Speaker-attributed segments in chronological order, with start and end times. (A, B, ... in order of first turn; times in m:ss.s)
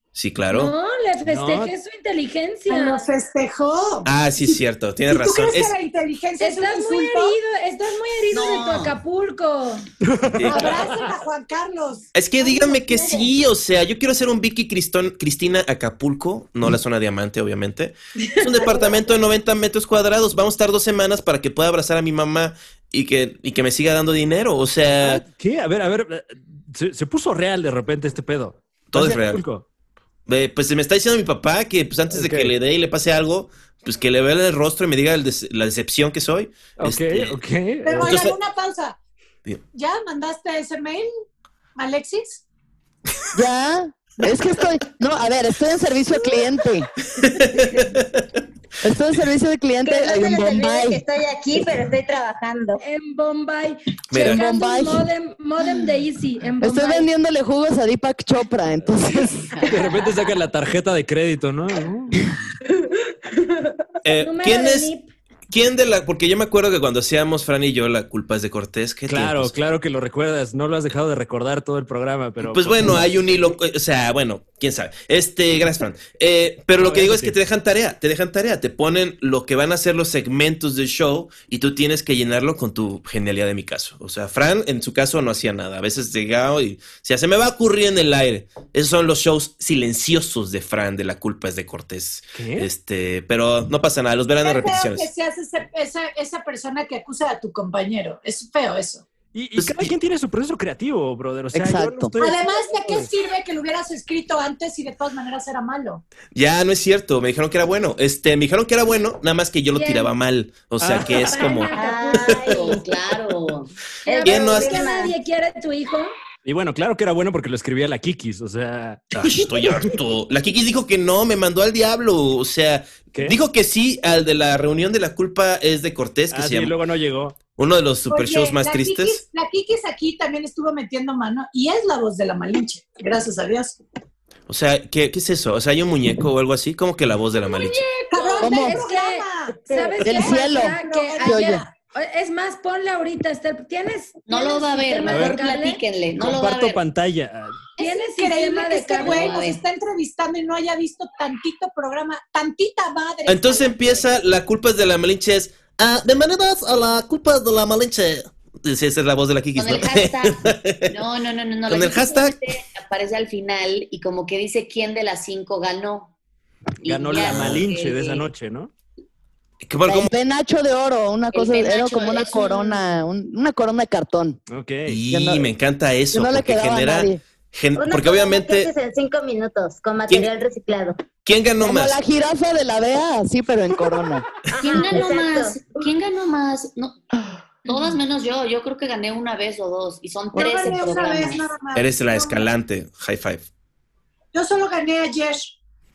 0:00.1-0:00.7 A
0:00.5-0:03.0 B
0:01.3-0:01.7 C
0:02.7-0:04.1 D
0:04.0-0:05.7 A
0:05.1-0:07.4 D
0:06.4-0:09.9 B
0:08.3-0:09.0 E
0:10.0-0:10.9 C
0:10.3-0:10.8 A
0:10.4-0:12.1 D
0:12.1-0:25.2 A
0:25.0-0:29.6 C
0:28.9-0:29.4 A
0:30.3-0:37.4 A
0:32.1-0:32.5 C
0:36.8-0:38.2 C
0:37.8-0:39.0 D
0:38.0-0:38.4 A
0:39.7-0:41.1 D
0:41.8-0:42.4 D
0:43.3-0:46.9 F
0:47.1-0:48.2 A
0:48.8-0:51.0 F
0:49.8-0:52.8 G
0:52.8-0:57.1 B
0:54.1-0:54.4 A
0:54.2-0:55.0 F
0:56.6-0:59.7 F
0:59.5-1:00.0 E
0:59.6-1:02.3 C
1:04.0-1:04.9 A
1:04.1-1:05.1 B
1:05.5-1:09.6 A
1:09.1-1:13.0 C
1:12.4-1:35.1 A
1:16.8-1:17.4 C
1:32.3-1:32.7 C
1:34.4-1:39.1 D
1:39.3-1:43.1 C
1:39.6-1:39.9 A
1:41.5-1:42.1 F
1:42.2-1:46.0 D
1:46.3-1:51.8 A
1:49.7-1:50.1 B
1:50.8-1:51.4 C
1:51.2-1:52.8 B
1:51.7-1:52.8 G
1:52.4-1:53.7 E
1:54.0-1:55.1 G
1:54.0-1:56.1 B
1:54.2-1:54.8 A
1:56.4-1:59.1 C
1:59.1-2:06.8 A
2:03.1-2:03.4 C
2:06.3-2:07.4 C
2:07.5-2:09.2 A
2:08.1-2:13.8 D
2:14.5-2:17.8 A
2:17.6-2:25.8 B
2:17.9-2:21.7 D
2:18.4-2:18.8 F
2:19.7-2:20.0 G
2:20.0-2:21.6 F
2:24.3-2:26.8 E
2:25.0-2:25.4 C
2:26.2-2:27.6 C
2:27.8-2:29.4 B
2:27.8-2:34.0 D
2:29.0-2:29.6 E
2:33.3-2:40.9 A
2:39.6-2:46.1 E
2:41.7-2:42.4 A
2:46.8-2:48.2 E
2:46.8-2:48.7 C
2:47.2-2:47.6 A
2:49.6-2:50.1 A
2:49.8-2:54.4 F
2:51.3-2:52.7 E
2:54.5-2:55.0 C
2:54.8-2:58.7 A
2:55.1-2:55.5 F
2:56.1-2:57.2 F
2:57.8-3:01.0 G
3:01.2-3:02.0 A
3:01.6-3:04.2 F
3:04.5-3:05.6 G
3:04.6-3:07.0 E
3:07.6-3:11.4 E
3:10.3-3:12.5 D
3:11.7-3:13.4 A
3:14.3-3:15.5 D